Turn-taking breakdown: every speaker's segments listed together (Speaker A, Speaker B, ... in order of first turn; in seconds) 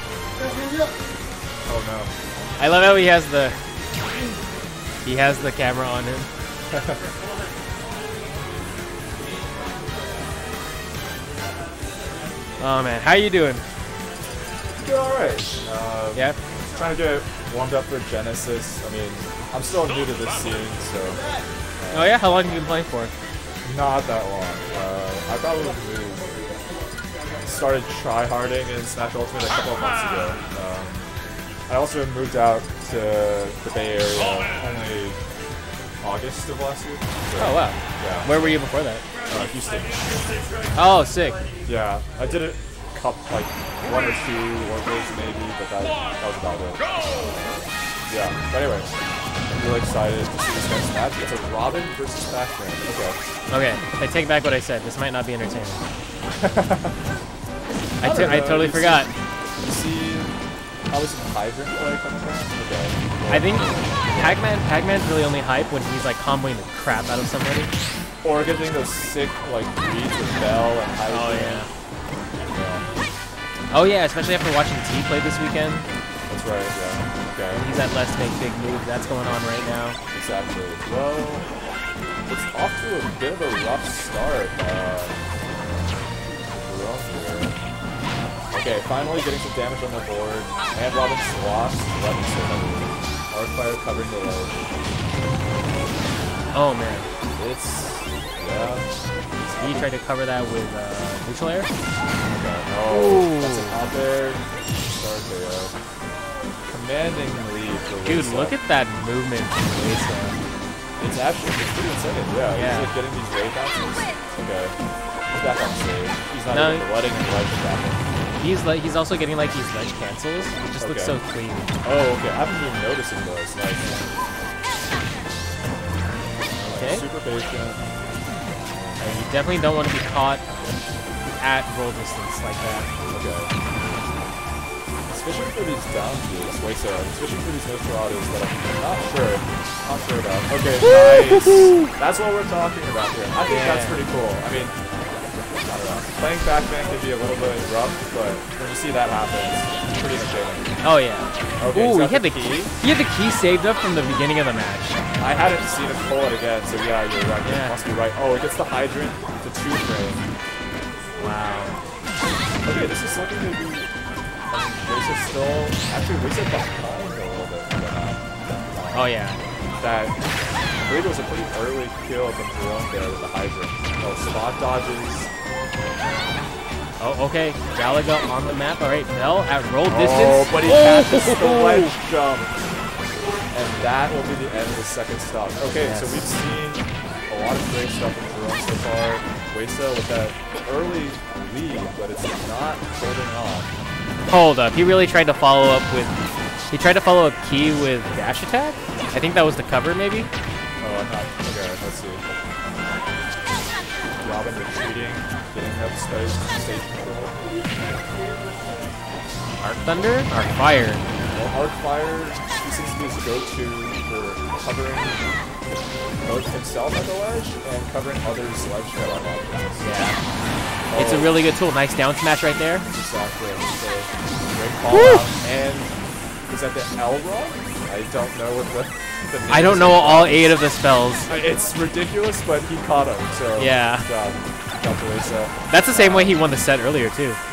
Speaker A: 1.6-2.1, 14.8-21.2, 21.8-22.2, 23.6-26.4, 27.4-31.1, 31.7-35.2, 36.0-38.6, 39.3-40.0, 41.7-48.9, 49.5-53.2, 56.4-57.0, 58.0-59.0, 59.6-60.3, 60.9-64.4, 68.2-71.6, 72.5-72.8, 76.3-77.6, 80.1-81.4, 82.3-87.5, 88.5-94.8, 97.3-98.8, 99.4-99.9, 102.2-105.7, 106.7-108.5, 111.0-114.7, 115.3-118.0, 120.8-121.2, 121.8-124.0, 126.6-127.8, 128.8-129.0, 133.1-133.5, 135.1-144.7, 145.7-150.7, 151.6-152.7, 155.2-160.3, 162.6-163.9, 164.5-168.2, 168.7-169.1, 169.8-170.1, 170.8-175.3, 179.9-182.5, 183.5-193.7, 200.8-202.2, 204.2-207.3, 211.3-215.2, 216.2-219.9, 220.9-221.3, 222.9-225.9, 226.5-230.6, 231.3-236.4
Speaker B: 2.6-3.5, 5.0-6.3, 12.6-13.6, 21.9-23.1, 37.4-39.0, 40.7-41.4, 53.5-55.8, 58.0-59.1, 63.3-67.7, 71.1-71.7, 73.7-75.8, 77.5-80.0, 96.5-97.1, 99.6-101.7, 102.9-103.8, 108.0-110.3, 112.5-112.9, 116.5-116.8, 118.4-121.7, 126.7-127.0, 129.0-130.4, 131.4-132.9, 140.8-141.8, 143.4-144.0, 150.8-155.0, 157.4-157.7, 161.2-161.7, 168.9-169.4, 177.0-181.9, 185.8-186.2, 194.3-196.1, 196.7-200.3, 209.6-211.0, 219.8-220.2, 220.9-222.8, 224.9-225.2, 229.5-231.3, 233.6-234.1, 235.7-237.4